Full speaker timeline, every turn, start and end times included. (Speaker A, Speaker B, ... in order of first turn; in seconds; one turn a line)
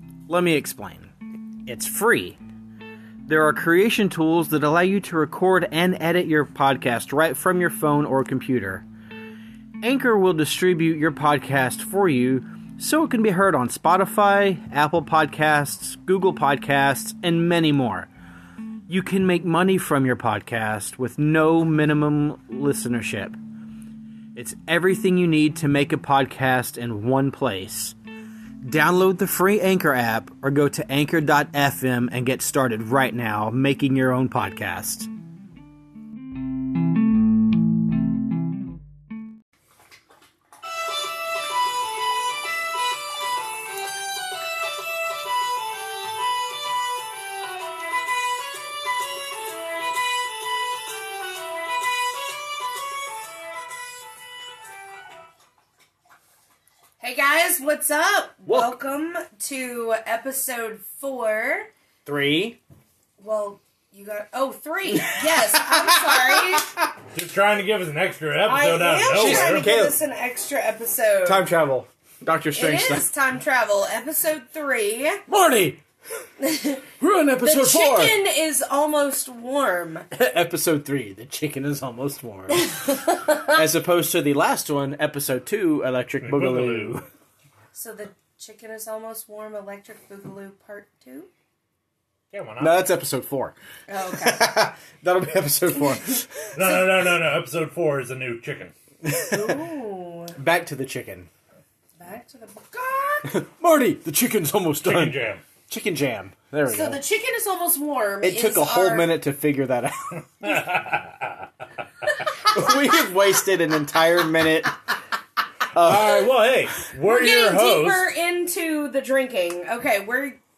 Speaker A: 0.3-1.1
Speaker A: 1.7-2.4
Speaker A: 3.3-8.8
Speaker A: 9.8-18.1
Speaker A: 18.9-23.4
Speaker A: 24.4-28.0
Speaker A: 28.6-35.1
Speaker B: 57.0-61.7
Speaker A: 58.5-58.8
Speaker A: 62.0-62.6
Speaker B: 63.2-66.7
Speaker A: 64.9-66.9
Speaker C: 67.1-69.7
Speaker B: 68.4-71.5
Speaker A: 69.2-70.0
Speaker A: 71.2-73.1
Speaker B: 72.6-75.2
Speaker A: 75.3-75.8
Speaker B: 76.4-76.9
Speaker A: 77.0-78.2
Speaker B: 77.4-80.1
Speaker A: 80.1-82.7
Speaker B: 82.5-83.6
Speaker A: 83.5-87.0
Speaker C: 86.2-87.0
Speaker B: 87.7-91.3
Speaker C: 92.3-92.8
Speaker A: 92.6-93.6
Speaker B: 93.9-94.5
Speaker A: 94.1-96.6
Speaker C: 96.5-98.7
Speaker A: 99.0-99.7
Speaker B: 99.3-100.4
Speaker A: 100.4-101.3
Speaker B: 102.0-103.4
Speaker A: 103.2-107.0
Speaker C: 104.8-105.4
Speaker B: 106.7-109.1
Speaker A: 108.2-110.2
Speaker C: 110.4-111.5
Speaker B: 112.3-113.1
Speaker A: 112.5-114.7
Speaker A: 115.7-116.3
Speaker C: 115.8-118.1
Speaker B: 117.0-120.4